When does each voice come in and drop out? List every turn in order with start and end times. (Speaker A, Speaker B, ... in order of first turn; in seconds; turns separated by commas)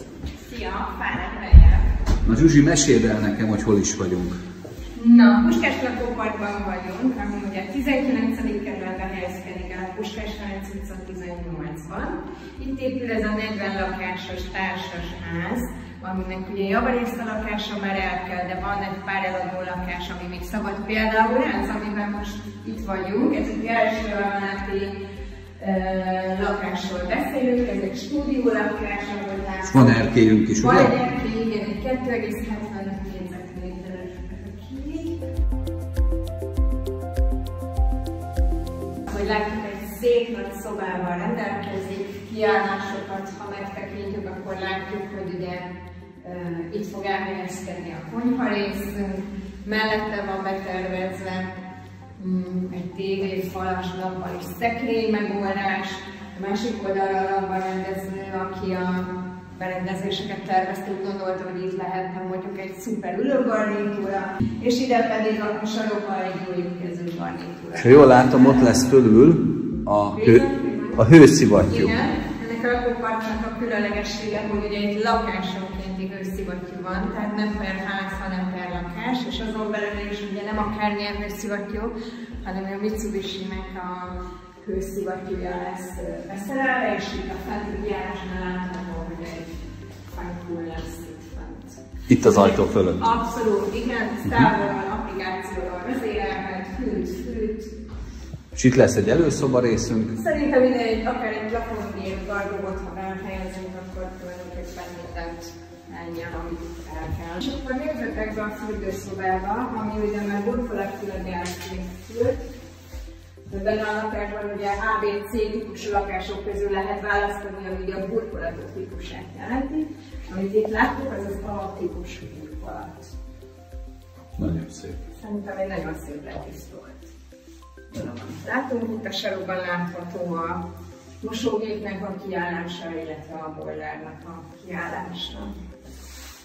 Speaker A: 0.4-1.9, Speaker B: 2.2-4.4, Speaker A: 4.9-25.0, Speaker A: 25.6-29.9, Speaker B: 29.6-30.9, Speaker A: 30.6-35.2, Speaker A: 39.1-45.7, Speaker A: 46.2-51.6, Speaker A: 52.2-68.7, Speaker B: 67.7-70.4, Speaker A: 70.1-71.1, Speaker B: 71.0-71.9, Speaker A: 71.7-81.9, Speaker A: 82.4-89.5, Speaker A: 90.1-97.7, Speaker B: 92.1-93.0, Speaker B: 98.5-100.1, Speaker A: 100.1-112.4, Speaker A: 113.5-123.1, Speaker B: 124.4-125.0, Speaker A: 125.1-127.1, Speaker A: 127.9-130.6, Speaker A: 131.2-135.5